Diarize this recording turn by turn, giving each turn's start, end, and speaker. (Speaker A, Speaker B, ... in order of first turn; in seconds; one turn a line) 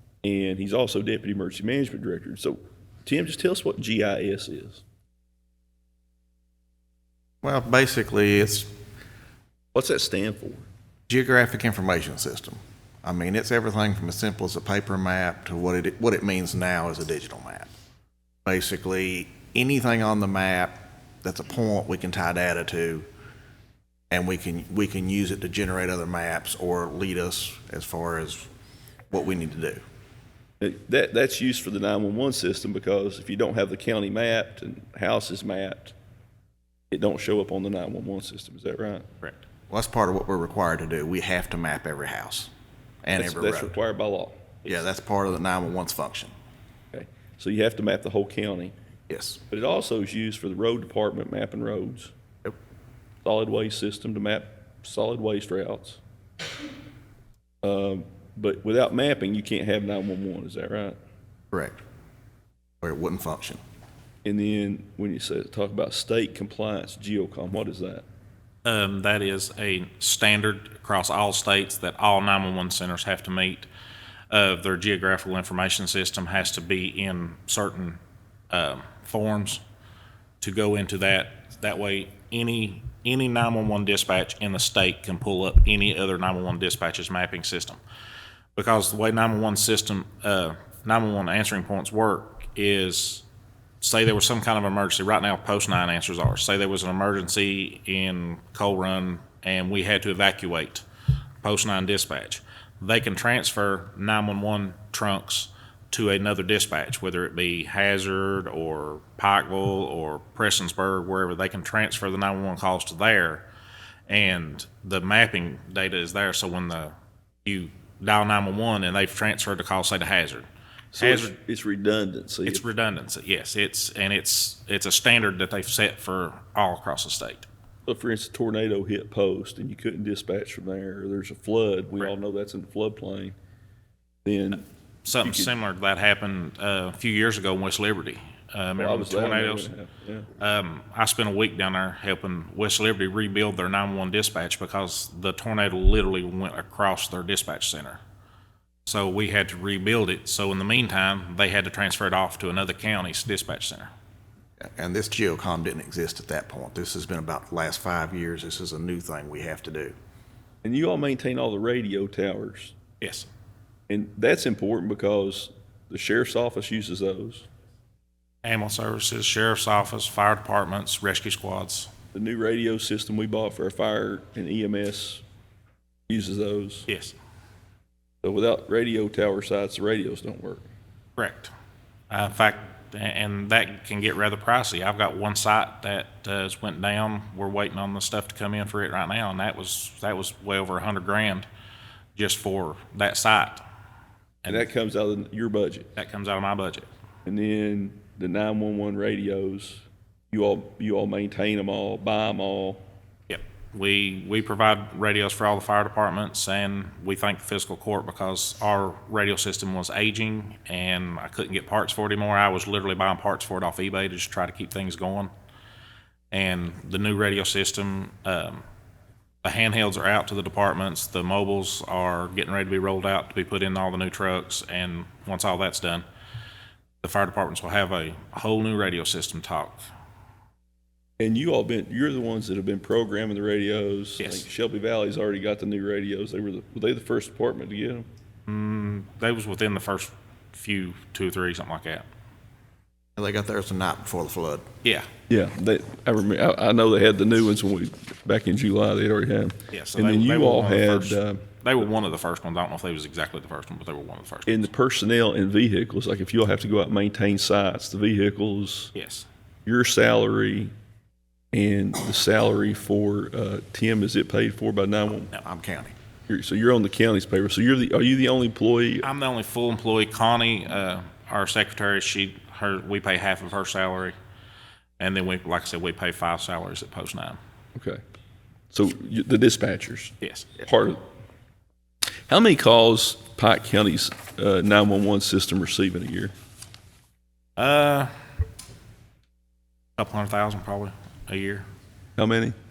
Speaker A: 0.2-4.8
Speaker B: 7.4-8.7
Speaker A: 9.7-10.7
Speaker B: 11.1-17.7
Speaker B: 18.4-23.1
Speaker B: 24.1-28.5
Speaker B: 29.1-29.8
Speaker A: 30.6-35.9
Speaker A: 36.9-39.1
Speaker B: 39.7-42.5
Speaker B: 43.0-43.7
Speaker A: 43.1-44.5
Speaker B: 44.6-46.3
Speaker A: 46.9-48.7
Speaker B: 49.1-49.4
Speaker A: 49.5-52.1
Speaker A: 53.2-56.0
Speaker A: 57.6-61.0
Speaker B: 61.5-61.8
Speaker B: 62.8-63.6
Speaker A: 64.2-68.0
Speaker C: 68.6-73.7
Speaker C: 74.3-78.0
Speaker C: 78.5-79.6
Speaker C: 80.4-87.8
Speaker C: 88.5-93.2
Speaker C: 93.8-100.8
Speaker C: 101.4-113.5
Speaker C: 114.1-116.9
Speaker C: 117.4-121.3
Speaker A: 120.9-122.6
Speaker C: 122.4-127.5
Speaker A: 127.8-133.3
Speaker A: 134.2-134.6
Speaker C: 135.0-139.7
Speaker A: 135.2-135.5
Speaker A: 138.8-140.3
Speaker C: 140.4-148.0
Speaker C: 148.8-153.9
Speaker B: 154.6-159.9
Speaker A: 160.6-162.8
Speaker C: 163.0-163.3
Speaker A: 163.9-167.5
Speaker C: 168.4-171.9
Speaker A: 172.1-175.2
Speaker A: 176.1-176.9
Speaker C: 176.9-177.2
Speaker A: 178.2-180.7
Speaker C: 181.2-181.5
Speaker C: 182.1-191.5
Speaker C: 192.2-193.6
Speaker C: 194.4-194.7
Speaker A: 194.5-195.9
Speaker C: 195.9-196.9
Speaker A: 197.2-202.8
Speaker C: 203.3-215.3
Speaker C: 216.3-218.6
Speaker C: 219.4-226.0
Speaker C: 227.0-229.8
Speaker A: 231.2-238.1
Speaker C: 234.2-234.4
Speaker C: 238.5-242.0
Speaker B: 243.2-244.7
Speaker A: 245.3-251.5
Speaker C: 249.7-254.7
Speaker A: 254.4-258.9
Speaker C: 258.9-259.3
Speaker A: 259.6-260.7
Speaker A: 261.5-265.3
Speaker B: 265.3-265.9
Speaker A: 266.3-269.1
Speaker C: 269.0-274.1
Speaker C: 275.0-277.4
Speaker A: 277.8-278.0
Speaker A: 278.7-281.0
Speaker C: 280.2-280.5
Speaker A: 282.3-286.3
Speaker C: 287.6-288.1
Speaker C: 290.0-291.6
Speaker A: 292.2-292.6